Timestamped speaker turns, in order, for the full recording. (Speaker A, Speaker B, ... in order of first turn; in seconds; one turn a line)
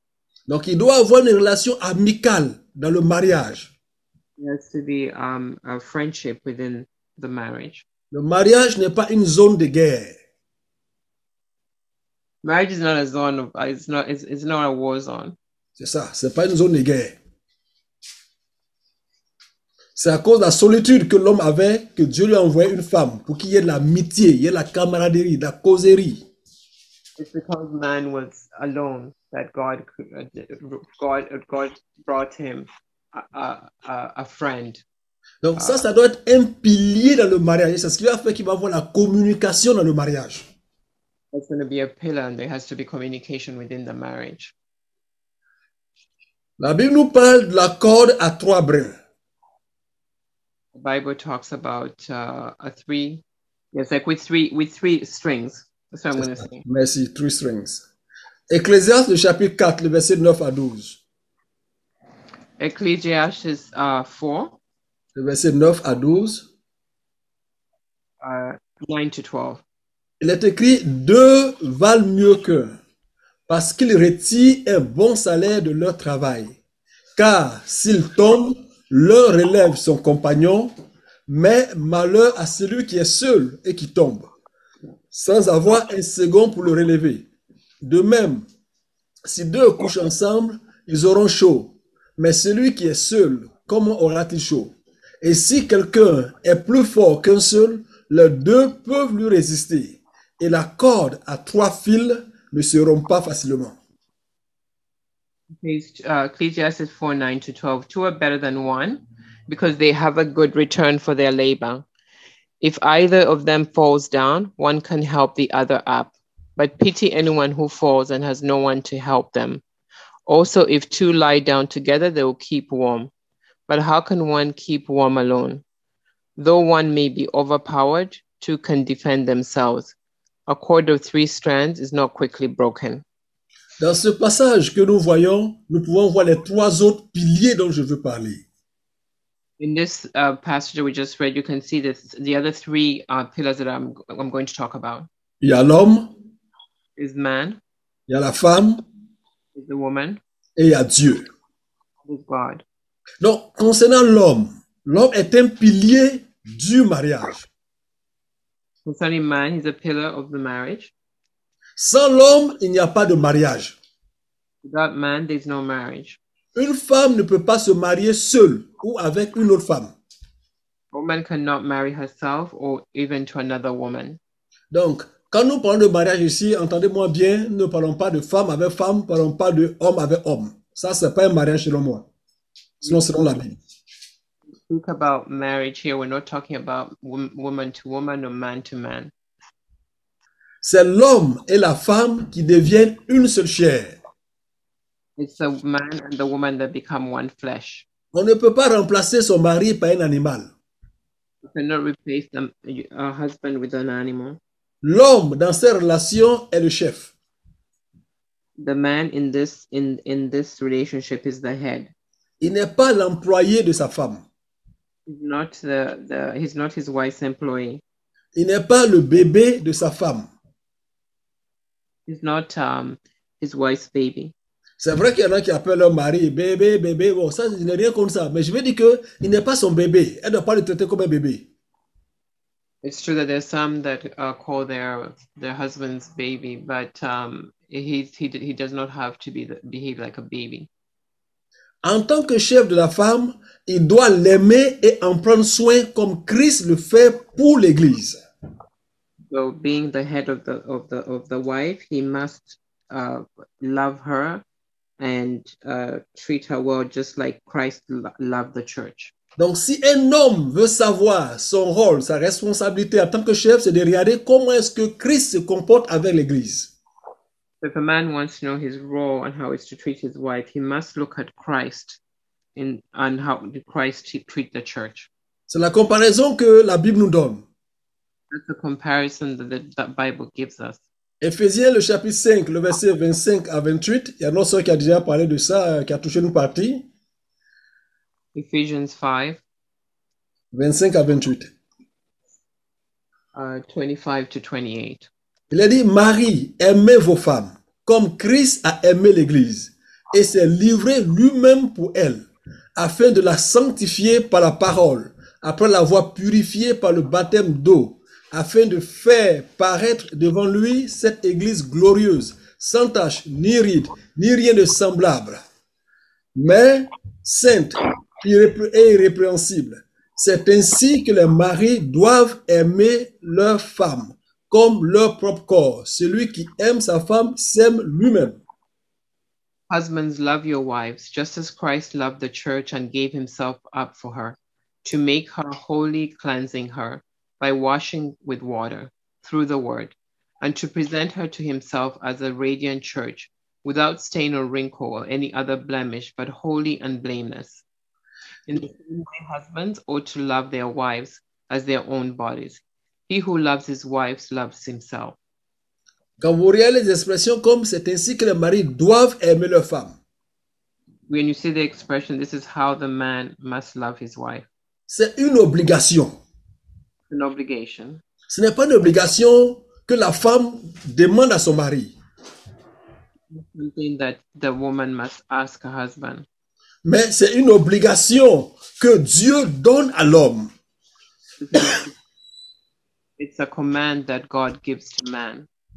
Speaker A: 0.5-3.7
Speaker B: 4.4-7.8
Speaker A: 8.1-10.2
Speaker B: 12.4-15.4
Speaker A: 15.8-17.2
Speaker A: 20.0-26.2
Speaker B: 27.2-34.8
Speaker A: 35.4-40.5
Speaker B: 35.5-35.8
Speaker B: 41.3-44.5
Speaker A: 46.6-49.0
Speaker B: 50.8-56.6
Speaker A: 56.2-57.8
Speaker A: 58.5-61.0
Speaker B: 62.6-64.6
Speaker A: 65.2-66.5
Speaker B: 68.2-69.6
Speaker A: 70.2-72.8
Speaker A: 73.5-76.6
Speaker A: 77.2-80.7
Speaker A: 81.3-84.3
Speaker A: 85.1-87.3
Speaker A: 87.8-88.5
Speaker A: 89.3-103.8
Speaker B: 105.6-111.8
Speaker B: 112.6-119.6
Speaker B: 120.3-123.1
Speaker B: 123.7-125.6
Speaker B: 126.4-129.9
Speaker B: 130.5-133.1
Speaker A: 133.8-138.5
Speaker B: 139.6-145.1
Speaker A: 145.4-146.1
Speaker B: 147.0-147.6
Speaker A: 148.1-148.8
Speaker B: 149.5-150.2
Speaker A: 150.6-151.3
Speaker B: 152.0-152.6
Speaker A: 153.2-157.5
Speaker B: 158.8-160.9
Speaker A: 161.8-163.8
Speaker B: 164.6-166.2
Speaker A: 166.6-169.9
Speaker B: 170.9-174.2
Speaker A: 174.7-182.1
Speaker A: 182.8-183.6
Speaker B: 182.8-183.1
Speaker B: 184.6-189.1
Speaker A: 190.6-194.0
Speaker B: 195.2-197.9
Speaker A: 198.1-200.5
Speaker B: 201.4-204.4
Speaker A: 204.8-207.1
Speaker B: 208.6-211.9
Speaker A: 212.4-214.3
Speaker B: 215.1-217.8
Speaker A: 218.3-220.3
Speaker B: 222.1-224.3
Speaker A: 224.8-231.5
Speaker B: 232.8-240.7
Speaker A: 241.8-248.2
Speaker B: 249.3-254.4
Speaker B: 255.0-259.1
Speaker A: 259.4-266.7
Speaker B: 267.6-272.0
Speaker B: 272.6-275.1
Speaker A: 275.5-277.5
Speaker B: 278.3-280.8
Speaker A: 281.2-286.9
Speaker B: 288.3-289.4
Speaker A: 290.5-291.5
Speaker B: 293.3-295.1
Speaker A: 295.5-302.2
Speaker A: 302.8-315.4
Speaker A: 316.4-328.4
Speaker B: 329.7-347.6
Speaker B: 348.5-355.2
Speaker A: 356.2-360.0
Speaker B: 361.1-364.5
Speaker A: 364.9-366.1
Speaker B: 367.1-368.0
Speaker A: 368.3-371.9
Speaker B: 373.3-376.3
Speaker A: 376.8-380.5
Speaker B: 381.4-381.9
Speaker B: 383.2-385.5